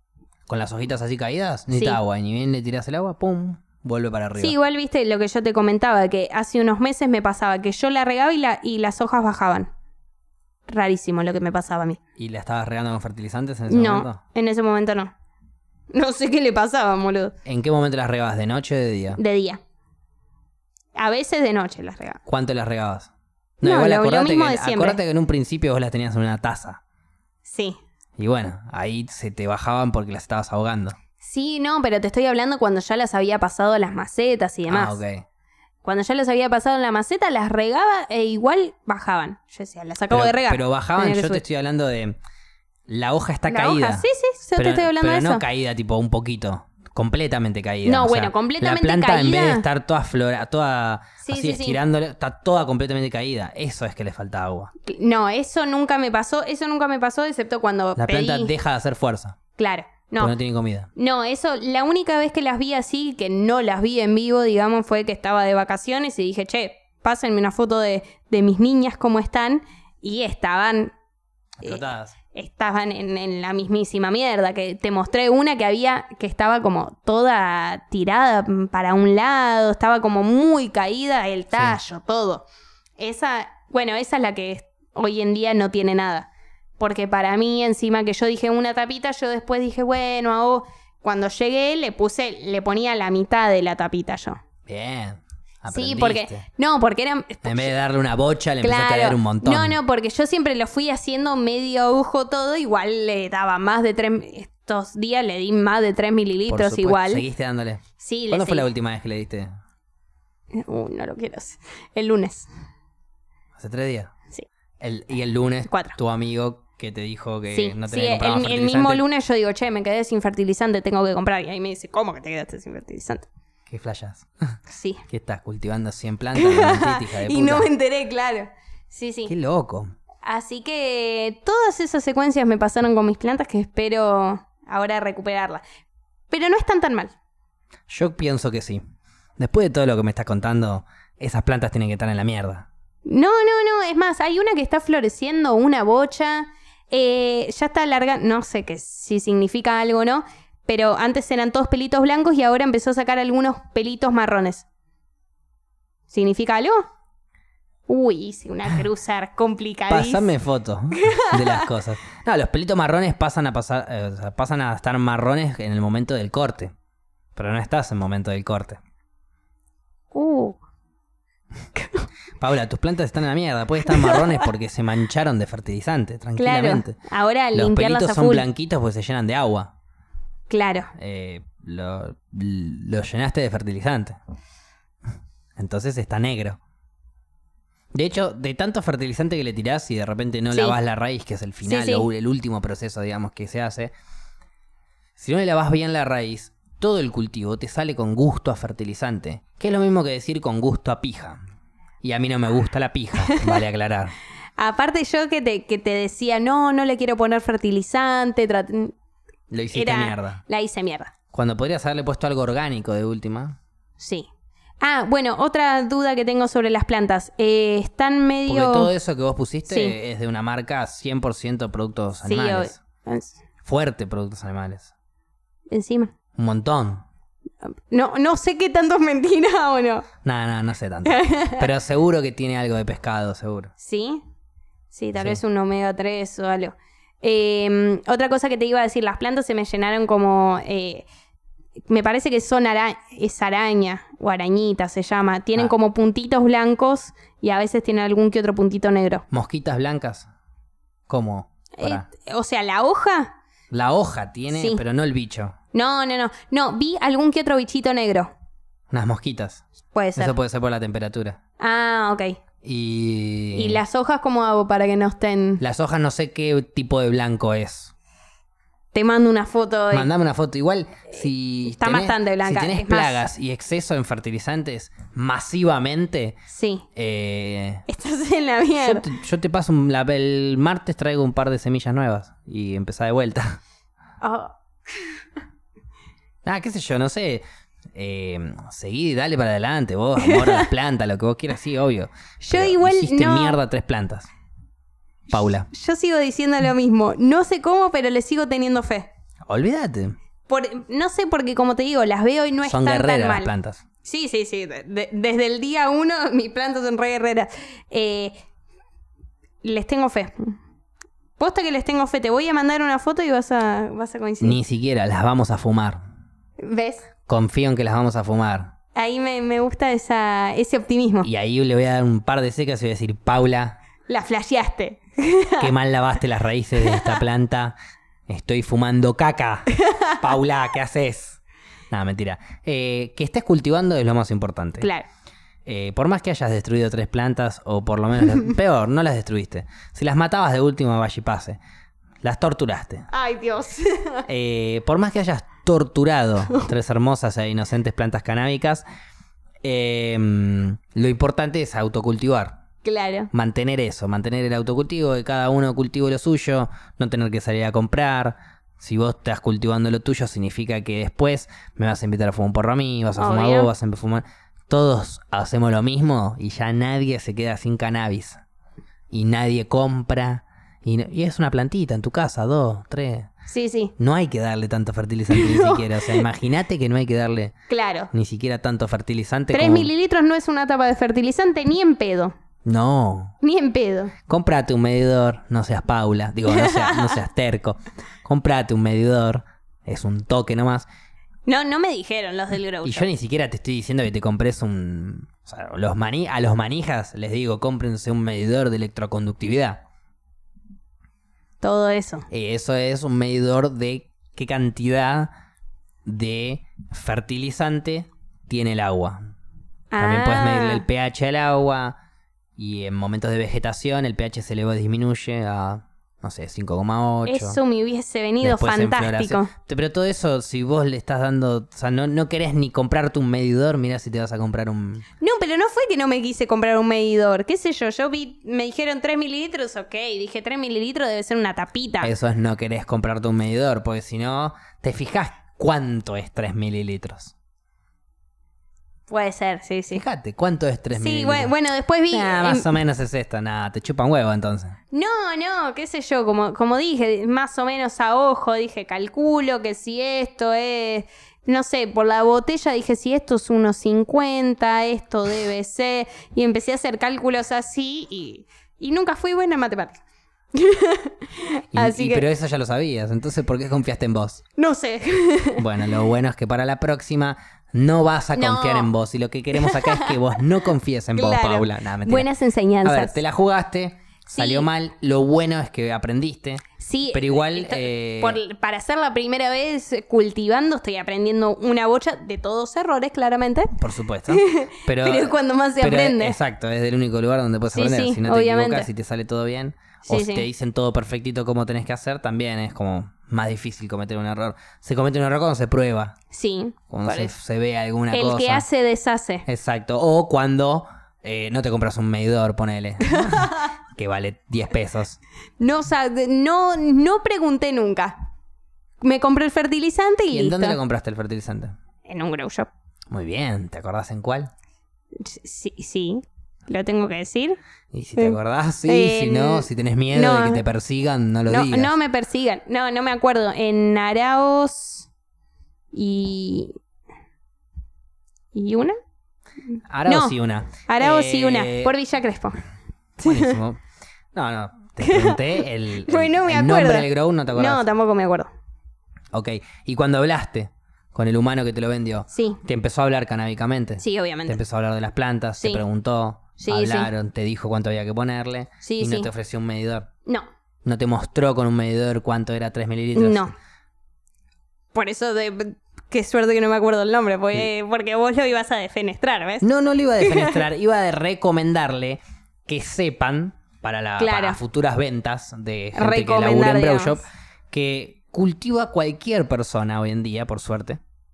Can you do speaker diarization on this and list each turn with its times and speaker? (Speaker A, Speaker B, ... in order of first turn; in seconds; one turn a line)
Speaker A: 0.5-4.5
Speaker B: 1.7-2.0
Speaker B: 4.4-9.7
Speaker B: 10.7-12.0
Speaker A: 12.2-14.2
Speaker B: 13.7-15.1
Speaker B: 15.9-17.3
Speaker A: 17.4-19.2
Speaker B: 19.2-19.6
Speaker B: 21.0-22.2
Speaker A: 22.3-26.8
Speaker B: 23.6-25.0
Speaker B: 27.4-27.8
Speaker A: 28.2-31.0
Speaker B: 31.2-35.0
Speaker A: 34.7-35.2
Speaker B: 35.8-41.4
Speaker A: 40.1-42.2
Speaker A: 42.9-44.0
Speaker B: 43.5-45.4
Speaker A: 44.6-54.7
Speaker B: 47.9-49.6
Speaker B: 51.2-51.8
Speaker B: 54.9-58.5
Speaker A: 58.0-59.4
Speaker B: 59.6-60.4
Speaker A: 60.2-60.9
Speaker B: 61.0-70.9
Speaker A: 71.6-72.2
Speaker B: 72.3-82.5
Speaker A: 81.5-81.8
Speaker B: 83.0-86.3
Speaker B: 86.8-94.4
Speaker A: 94.7-96.5
Speaker B: 95.7-97.7
Speaker A: 97.4-99.8
Speaker B: 98.6-107.2
Speaker A: 106.5-109.5
Speaker B: 108.0-108.7
Speaker B: 110.5-112.5
Speaker A: 113.6-114.1
Speaker A: 114.8-119.0
Speaker B: 115.7-116.0
Speaker B: 117.5-123.3
Speaker A: 123.7-124.6
Speaker B: 124.7-125.0
Speaker A: 125.1-127.7
Speaker B: 126.3-129.3
Speaker A: 129.3-129.9
Speaker B: 130.2-135.6
Speaker B: 136.3-137.1
Speaker A: 137.9-138.8
Speaker A: 139.4-142.7
Speaker B: 143.1-154.7
Speaker B: 156.1-156.9
Speaker B: 157.9-160.3
Speaker A: 159.9-166.7
Speaker B: 161.0-161.7
Speaker A: 167.3-168.8
Speaker B: 170.1-170.6
Speaker B: 171.8-172.1
Speaker A: 172.4-177.0
Speaker B: 173.9-174.4
Speaker B: 176.4-178.5
Speaker A: 177.5-179.7
Speaker B: 180.5-180.9
Speaker A: 181.0-184.2
Speaker A: 185.6-186.6
Speaker A: 187.9-193.9
Speaker B: 190.5-190.8
Speaker B: 191.6-192.1
Speaker A: 195.2-201.4
Speaker A: 202.0-204.2
Speaker B: 203.2-203.6
Speaker B: 204.6-208.9
Speaker A: 209.5-210.4
Speaker B: 209.7-211.1
Speaker A: 211.3-213.6
Speaker B: 214.0-214.3
Speaker B: 214.8-218.9
Speaker A: 218.5-222.8
Speaker B: 219.7-220.0
Speaker B: 222.2-223.4
Speaker A: 223.6-224.9
Speaker B: 225.7-226.1
Speaker A: 226.4-227.1
Speaker B: 227.9-230.1
Speaker A: 230.2-233.7
Speaker B: 231.1-231.7
Speaker B: 233.8-234.2
Speaker B: 234.9-241.1
Speaker B: 241.9-249.2
Speaker A: 249.3-250.3
Speaker A: 251.1-252.1
Speaker B: 251.8-253.3
Speaker A: 253.7-255.6
Speaker B: 254.5-254.8
Speaker B: 255.7-258.3
Speaker A: 258.9-259.6
Speaker B: 259.9-260.4
Speaker A: 260.2-261.4
Speaker B: 261.6-262.4
Speaker A: 262.6-263.8
Speaker B: 263.6-265.6
Speaker A: 265.6-267.9
Speaker B: 268.9-270.1
Speaker A: 269.9-276.4
Speaker B: 271.7-273.2
Speaker B: 276.5-276.9
Speaker A: 277.0-277.8
Speaker B: 277.9-279.1
Speaker A: 278.8-283.6
Speaker B: 284.2-285.1
Speaker A: 286.4-287.4
Speaker A: 287.9-294.3
Speaker B: 290.2-290.7
Speaker B: 292.4-293.6
Speaker A: 295.3-295.7
Speaker B: 295.3-299.1
Speaker A: 299.5-300.2
Speaker B: 300.5-303.5
Speaker A: 302.6-303.8
Speaker B: 304.0-308.3
Speaker B: 309.6-310.6
Speaker B: 311.4-314.6
Speaker A: 314.4-316.0
Speaker B: 316.6-317.1
Speaker A: 317.3-318.7
Speaker B: 318.9-321.3
Speaker A: 321.2-323.8
Speaker B: 324.1-325.7
Speaker A: 325.6-327.8
Speaker B: 326.8-327.2
Speaker A: 328.3-331.4
Speaker B: 329.7-330.2
Speaker A: 331.9-334.9
Speaker B: 334.8-335.1
Speaker A: 335.7-341.6
Speaker A: 342.2-343.1
Speaker B: 343.1-344.3
Speaker A: 344.3-348.8
Speaker A: 349.6-352.6
Speaker B: 352.8-353.3
Speaker A: 353.3-368.4
Speaker B: 363.2-363.7
Speaker A: 369.1-373.3
Speaker B: 373.5-373.9
Speaker A: 374.0-377.5
Speaker B: 375.3-376.2
Speaker B: 377.7-378.1
Speaker A: 378.1-379.9
Speaker B: 379.5-382.3
Speaker A: 382.6-383.3
Speaker B: 383.4-384.1
Speaker A: 384.3-390.9
Speaker B: 386.5-387.2
Speaker B: 391.5-393.1
Speaker A: 392.8-399.8
Speaker B: 401.6-402.3
Speaker A: 402.3-405.3
Speaker A: 406.1-409.3
Speaker B: 409.9-410.8
Speaker A: 410.0-412.0
Speaker A: 412.6-417.6
Speaker B: 417.3-419.5
Speaker A: 418.4-425.1
Speaker B: 425.2-432.1
Speaker A: 432.0-437.3
Speaker B: 439.1-440.0
Speaker A: 439.9-441.5
Speaker B: 441.0-442.7
Speaker A: 442.1-444.8
Speaker B: 444.9-460.0
Speaker B: 460.6-462.3
Speaker A: 461.7-464.4
Speaker B: 464.6-465.6
Speaker A: 465.6-472.3
Speaker B: 468.4-468.9
Speaker B: 469.5-470.2
Speaker B: 471.1-473.2
Speaker A: 472.8-478.4
Speaker B: 474.3-474.7
Speaker B: 476.8-483.7
Speaker A: 483.8-496.2
Speaker B: 484.3-486.4
Speaker B: 487.7-488.9
Speaker B: 490.1-490.5
Speaker B: 496.3-497.3
Speaker A: 496.9-498.7
Speaker B: 498.1-499.4
Speaker A: 499.5-505.2
Speaker B: 503.1-503.7
Speaker B: 505.6-508.2
Speaker B: 509.0-510.8
Speaker A: 510.3-511.7
Speaker B: 512.1-512.7
Speaker A: 513.1-514.5
Speaker B: 515.1-517.6
Speaker A: 517.9-522.0
Speaker B: 518.2-520.6
Speaker B: 521.5-525.1
Speaker B: 525.9-526.7
Speaker B: 528.5-529.0
Speaker A: 529.9-531.9
Speaker B: 530.1-530.4
Speaker B: 530.9-532.6
Speaker B: 533.2-533.6
Speaker A: 533.2-533.8
Speaker A: 534.3-537.8
Speaker B: 535.0-538.5
Speaker A: 539.3-550.1
Speaker B: 542.3-542.6
Speaker B: 544.0-544.6
Speaker B: 546.6-547.1
Speaker B: 548.8-549.3
Speaker A: 550.9-553.4
Speaker B: 553.1-553.5
Speaker B: 554.9-559.6
Speaker A: 559.6-571.0
Speaker B: 560.2-560.6
Speaker B: 564.2-564.6
Speaker B: 566.0-567.2